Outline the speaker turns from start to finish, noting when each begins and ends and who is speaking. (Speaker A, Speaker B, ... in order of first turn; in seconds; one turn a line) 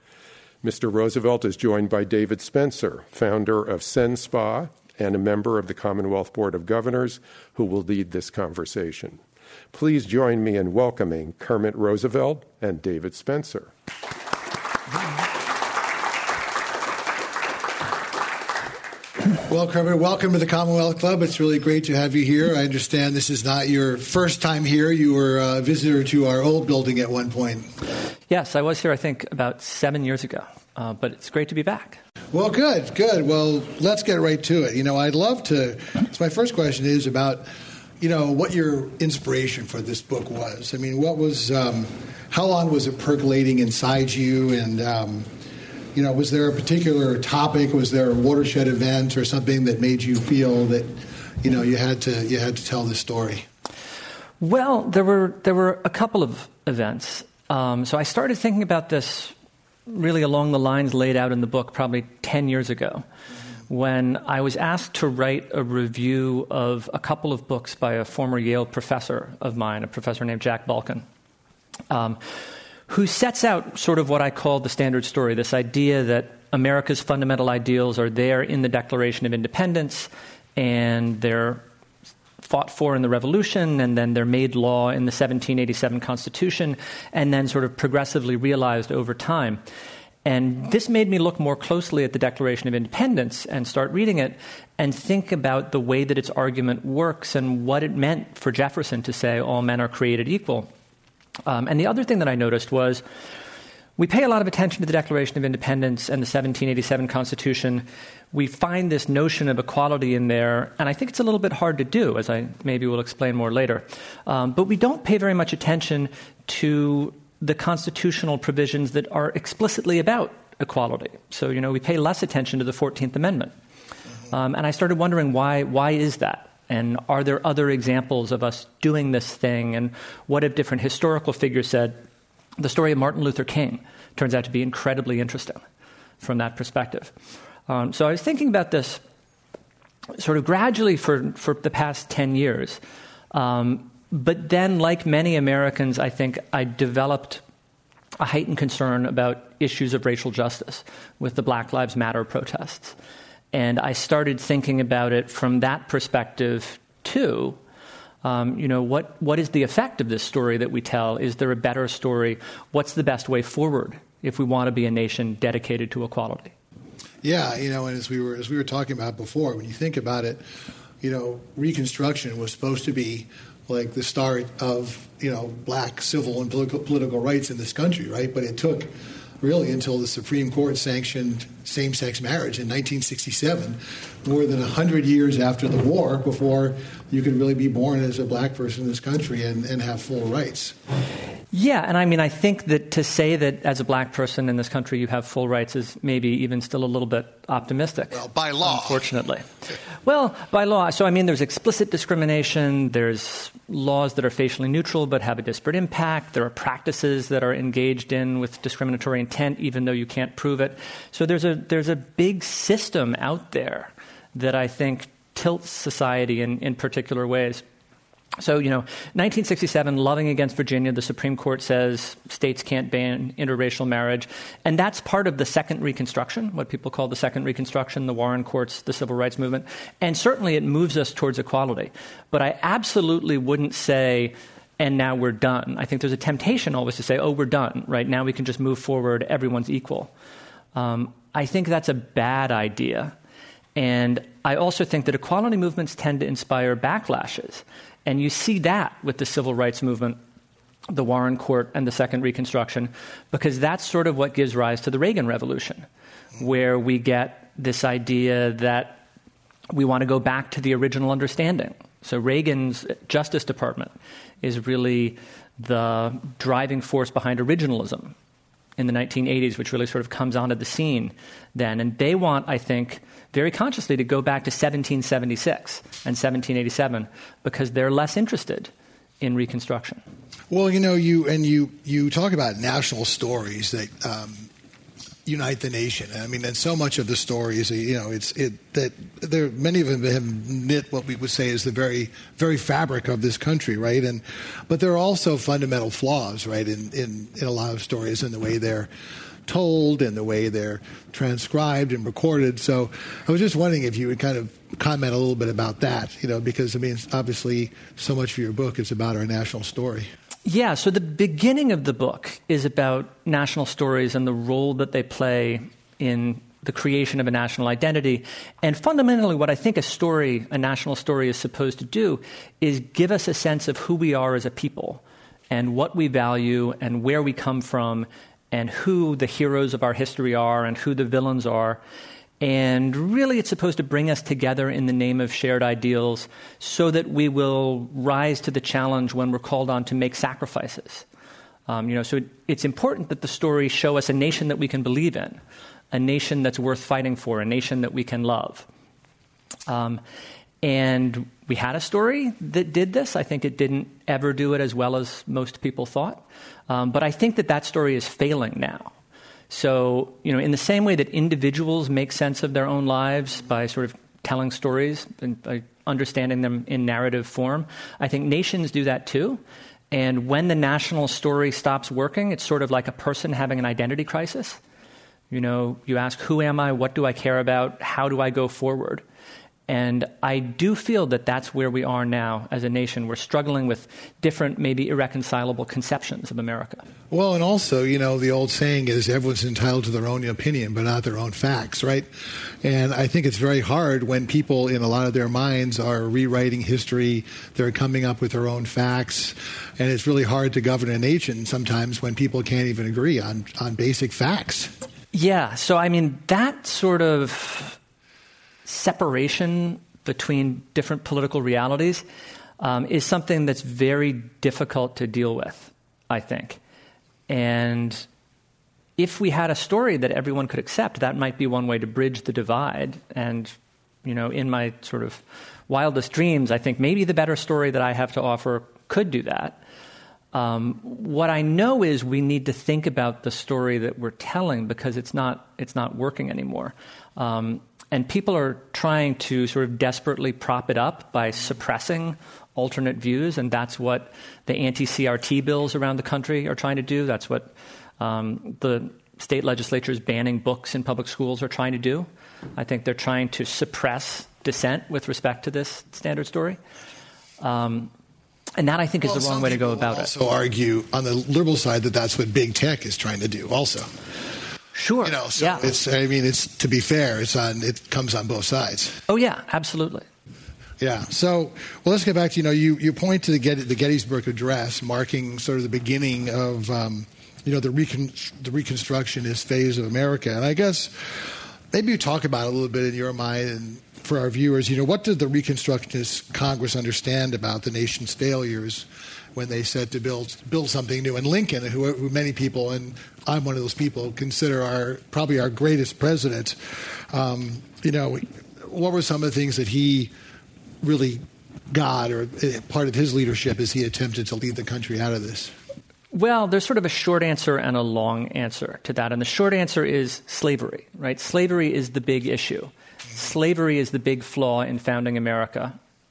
Speaker A: 0.6-9.2
Speaker A: 9.7-13.7
Speaker B: 19.4-27.7
Speaker C: 28.3-32.0
Speaker B: 32.3-37.5
Speaker B: 38.0-45.3
Speaker B: 45.9-53.5
Speaker C: 54.4-59.3
Speaker C: 59.9-63.0
Speaker C: 63.7-71.0
Speaker C: 71.9-72.2
Speaker C: 72.9-81.6
Speaker C: 82.4-89.6
Speaker C: 90.2-100.7
Speaker C: 101.5-103.0
Speaker C: 104.0-123.5
Speaker C: 124.3-132.0
Speaker C: 132.6-135.6
Speaker C: 136.2-137.1
Speaker C: 137.7-139.0
Speaker C: 140.2-142.8
Speaker C: 143.3-147.4
Speaker C: 148.2-152.9
Speaker C: 153.5-157.6
Speaker C: 158.2-166.5
Speaker B: 167.2-170.4
Speaker B: 171.0-190.8
Speaker C: 191.5-199.5
Speaker B: 198.1-199.0
Speaker C: 200.0-217.6
Speaker C: 218.4-240.1
Speaker C: 240.7-243.1
Speaker C: 243.8-250.2
Speaker C: 250.9-255.8
Speaker C: 256.4-259.0
Speaker C: 259.7-268.1
Speaker C: 268.8-280.0
Speaker B: 280.5-284.5
Speaker B: 285.2-298.9
Speaker B: 299.4-310.1
Speaker C: 310.4-331.8
Speaker C: 332.4-341.1
Speaker C: 341.7-345.4
Speaker C: 345.9-348.7
Speaker C: 349.7-350.0
Speaker C: 350.6-358.9
Speaker C: 359.5-374.6
Speaker C: 375.3-379.0
Speaker C: 379.7-386.9
Speaker B: 387.1-404.7
Speaker C: 405.1-407.8
Speaker C: 408.6-412.0
Speaker C: 412.6-416.6
Speaker C: 417.3-418.1
Speaker C: 419.0-429.6
Speaker C: 430.3-456.6
Speaker C: 457.4-457.9
Speaker C: 458.6-460.1
Speaker B: 459.0-463.9
Speaker C: 464.7-465.6
Speaker B: 465.0-469.0
Speaker C: 469.1-470.1
Speaker B: 470.8-500.1
Speaker B: 500.8-505.5
Speaker C: 506.1-515.8